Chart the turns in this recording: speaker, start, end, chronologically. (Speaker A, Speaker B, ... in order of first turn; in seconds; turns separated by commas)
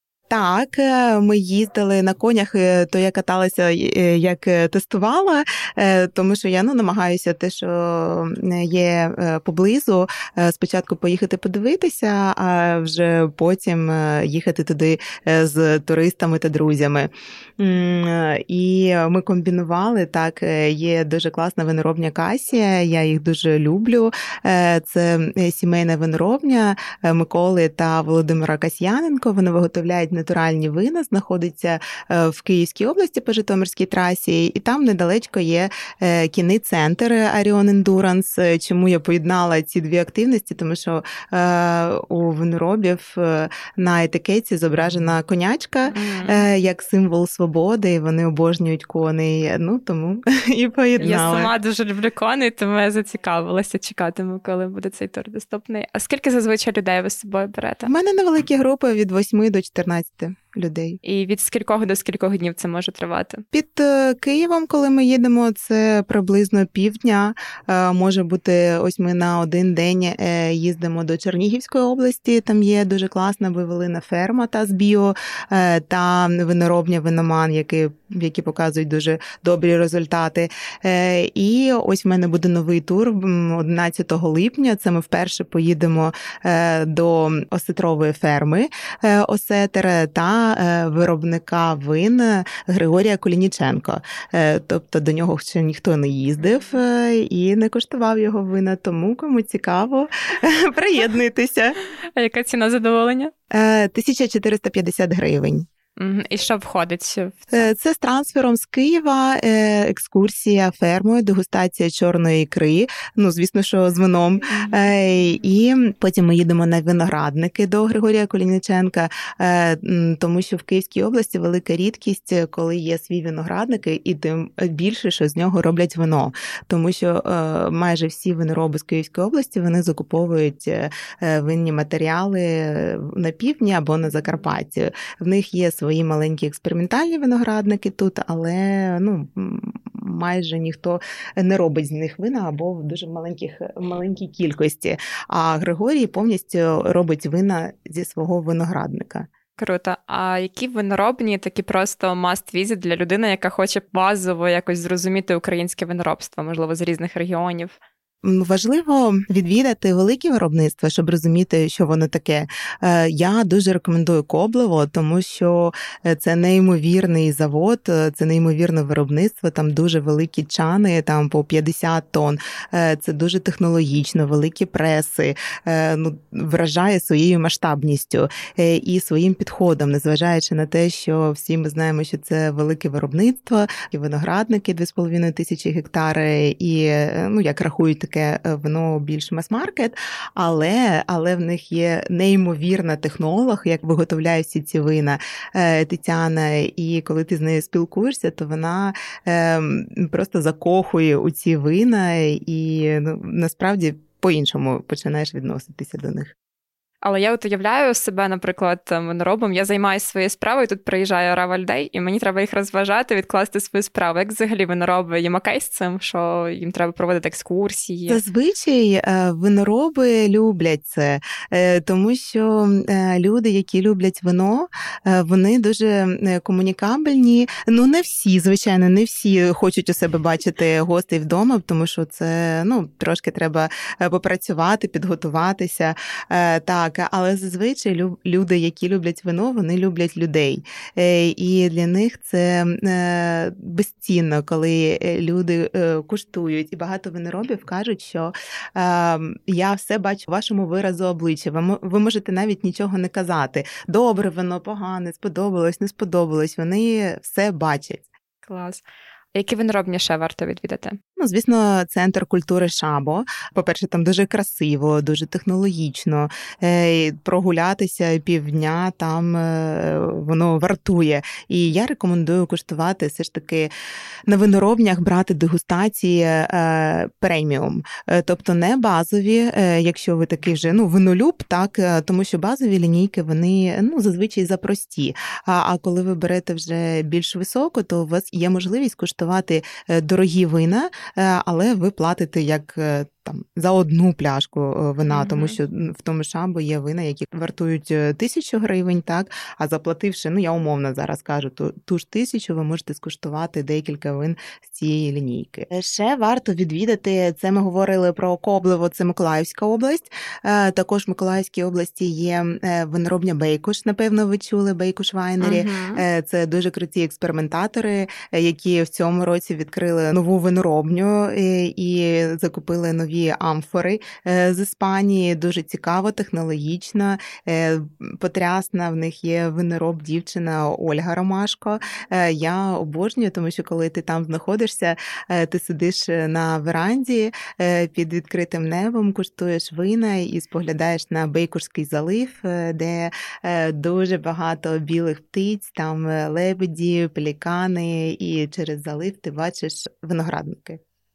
Speaker A: 0.3-51.5, Speaker B: 45.9-46.4, Speaker B: 51.0-57.9, Speaker A: 57.8-61.0, Speaker B: 61.0-63.4, Speaker A: 63.5-101.8, Speaker B: 102.2-103.3, Speaker A: 103.5-105.7, Speaker B: 106.0-107.7, Speaker A: 107.5-149.3, Speaker B: 114.5-114.7, Speaker B: 149.6-157.8, Speaker A: 158.2-206.3, Speaker B: 207.0-218.2, Speaker A: 218.1-258.1, Speaker B: 258.4-258.8, Speaker B: 259.3-261.0, Speaker A: 261.2-273.7, Speaker A: 274.3-350.8, Speaker B: 295.1-295.6, Speaker B: 315.4-316.0